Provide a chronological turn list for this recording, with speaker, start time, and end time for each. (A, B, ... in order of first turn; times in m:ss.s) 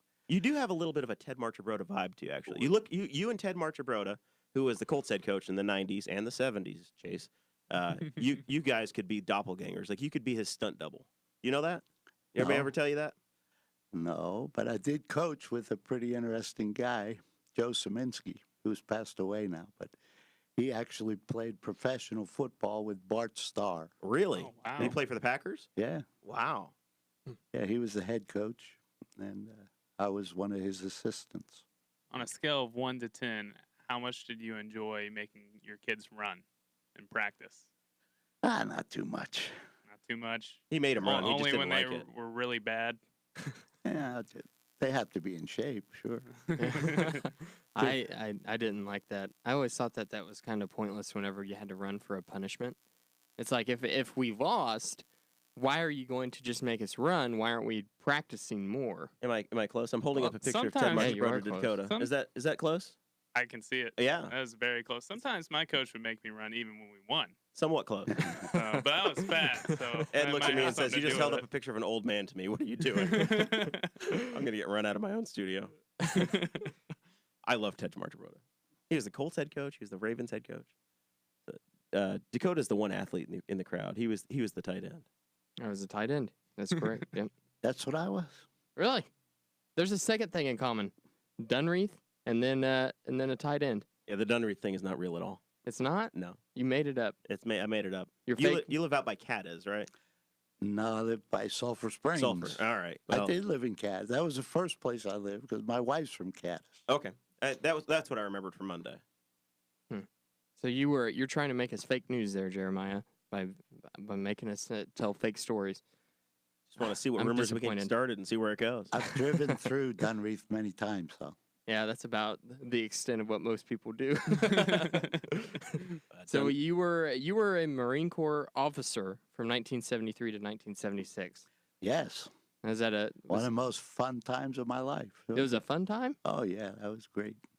0:00.3-0:13.1 A
0:12.4-0:12.7 B
0:13.9-0:19.9 B
0:20.6-0:23.9 B
0:24.0-0:25.7 A
0:24.4-0:25.0 C
0:25.8-0:26.0 B
0:26.2-0:26.7 A
0:27.5-0:31.6 B
0:32.1-0:36.4 C
0:36.9-0:37.7 C
0:38.4-0:39.5 B
0:39.9-0:43.0 C
0:40.7-0:42.0 A
0:43.8-0:46.3 B
0:46.5-0:47.2 C
0:46.6-0:52.8 D
0:53.4-0:55.0 D
0:55.6-0:59.1 D
0:59.2-1:03.0 A
1:00.1-1:02.1 C
1:00.9-1:01.7 D
1:03.3-1:07.3 C
1:04.0-1:04.3 A
1:07.5-1:08.2 A
1:08.2-1:08.8 D
1:08.5-1:11.5 C
1:09.6-1:10.7 D
1:10.1-1:13.5 A
1:13.1-1:14.0 C
1:14.2-1:15.7 A
1:16.0-1:16.7 D
1:17.4-1:20.7 A
1:21.5-1:25.0 A
1:25.6-1:27.3 D
1:27.6-1:28.4 B
1:28.8-1:29.1 D
1:29.8-1:33.8 D
1:34.1-1:35.4 A
1:35.6-1:37.2 D
1:36.1-1:36.4 A
1:37.2-1:39.9 A
1:38.2-1:38.7 D
1:40.6-1:46.8 B
1:42.2-1:43.3 A
1:46.9-1:49.0 A
1:50.6-1:55.8 D
1:56.7-1:59.0 A
1:56.8-1:57.9 D
1:58.9-2:01.3 B
2:01.7-2:11.4 D
2:06.1-2:06.5 A
2:11.8-2:12.3 B
2:12.6-2:13.5 D
2:13.3-2:15.6 B
2:15.3-2:16.2 D
2:16.2-2:17.4 B